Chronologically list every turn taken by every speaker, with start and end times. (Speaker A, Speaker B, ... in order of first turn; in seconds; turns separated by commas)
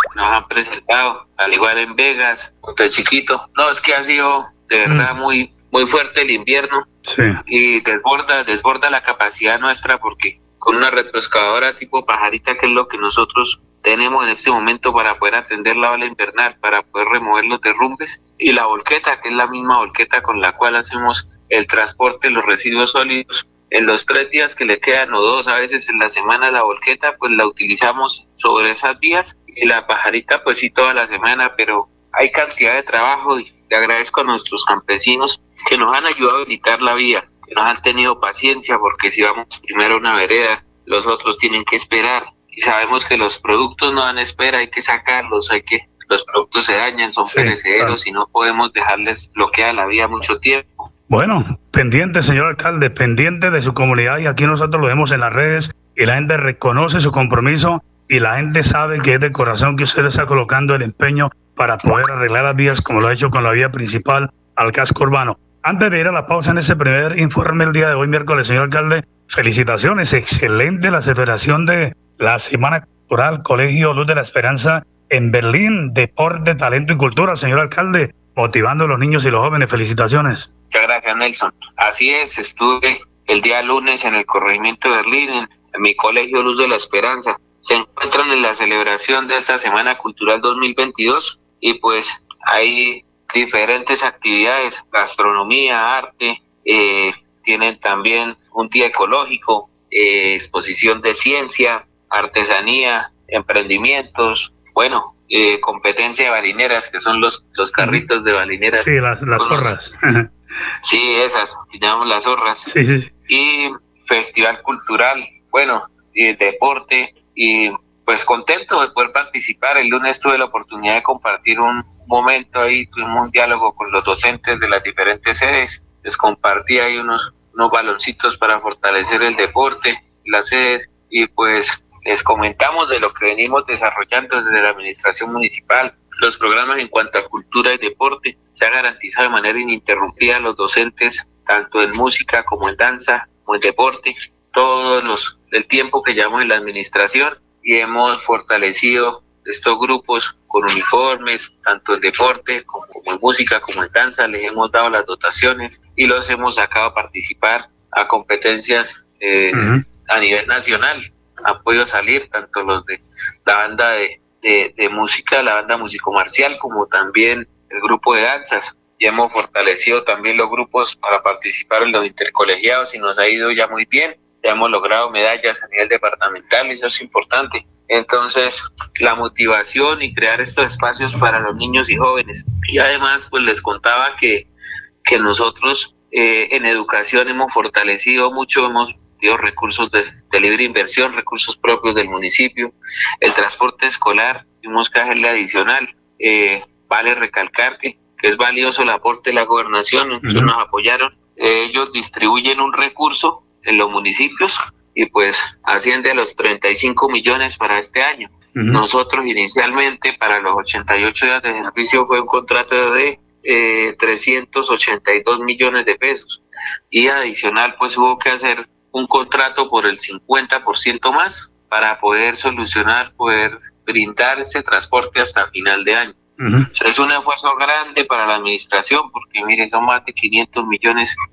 Speaker A: 0.1-6.9, Speaker B: 7.1-7.4, Speaker A: 7.5-50.9, Speaker B: 47.3-48.0, Speaker B: 51.1-80.5, Speaker A: 80.7-109.7, Speaker B: 107.8-108.0, Speaker B: 108.8-110.3, Speaker A: 110.8-112.7, Speaker B: 112.7-113.1, Speaker A: 113.3-184.5, Speaker B: 159.5-159.8, Speaker A: 185.0-226.2, Speaker B: 200.2-200.5, Speaker B: 208.6-208.8, Speaker B: 226.4-226.7, Speaker A: 226.8-231.2